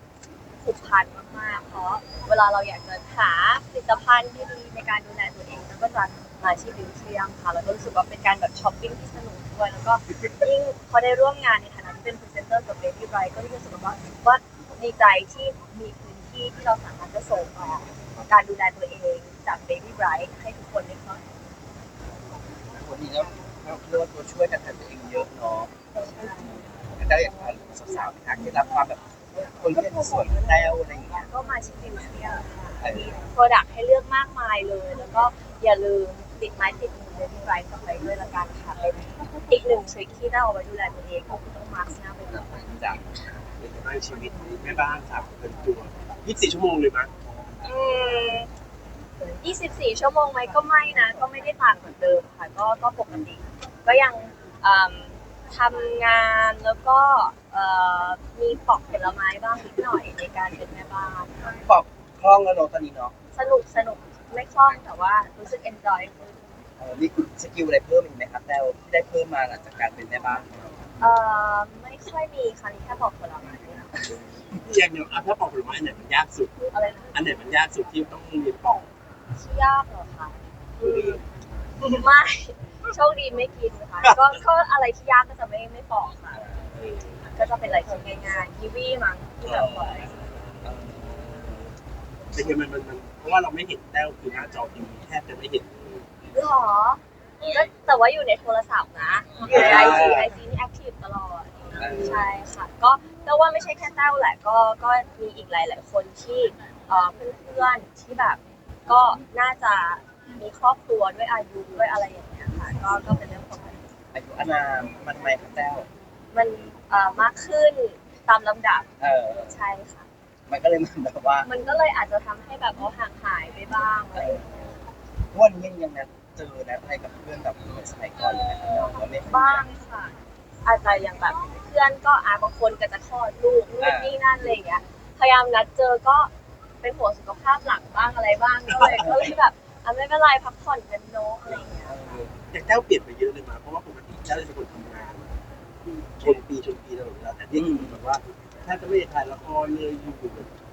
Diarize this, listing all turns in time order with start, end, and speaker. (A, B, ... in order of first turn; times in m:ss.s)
0:00.6-0:21.3 A
0:22.6-0:25.7 B
0:25.9-0:26.5 A
0:26.9-0:29.0 B
0:29.6-0:31.3 B
0:30.0-0:43.0 A
0:32.8-0:33.2 B
0:43.6-0:47.1 C
0:47.6-0:48.5 A
0:49.2-1:01.5 A
1:01.4-1:03.1 B
1:03.3-1:06.3 A
1:06.8-1:10.9 B
1:11.0-1:14.0 A
1:14.6-1:16.6 C
1:16.7-1:17.1 A
1:17.1-1:18.9 C
1:19.3-1:21.2 A
1:20.8-1:21.2 C
1:21.8-1:26.4 A
1:26.3-1:26.7 B
1:26.7-1:27.2 C
1:27.3-1:30.3 A
1:29.4-1:31.7 B
1:32.3-1:36.1 C
1:36.3-1:53.8 A
1:39.4-1:40.3 B
1:39.4-1:40.3 C
1:41.8-1:42.2 B
1:54.1-1:55.9 B
1:56.3-2:00.1 A
1:59.0-1:59.6 B
2:00.5-2:01.5 B
2:01.4-2:04.4 A
2:04.1-2:09.7 B
2:08.8-2:16.3 A
2:13.8-2:14.2 B
2:16.8-2:22.0 A
2:21.8-2:22.3 B
2:22.5-2:25.4 C
2:26.2-2:30.5 C
2:27.5-2:28.0 B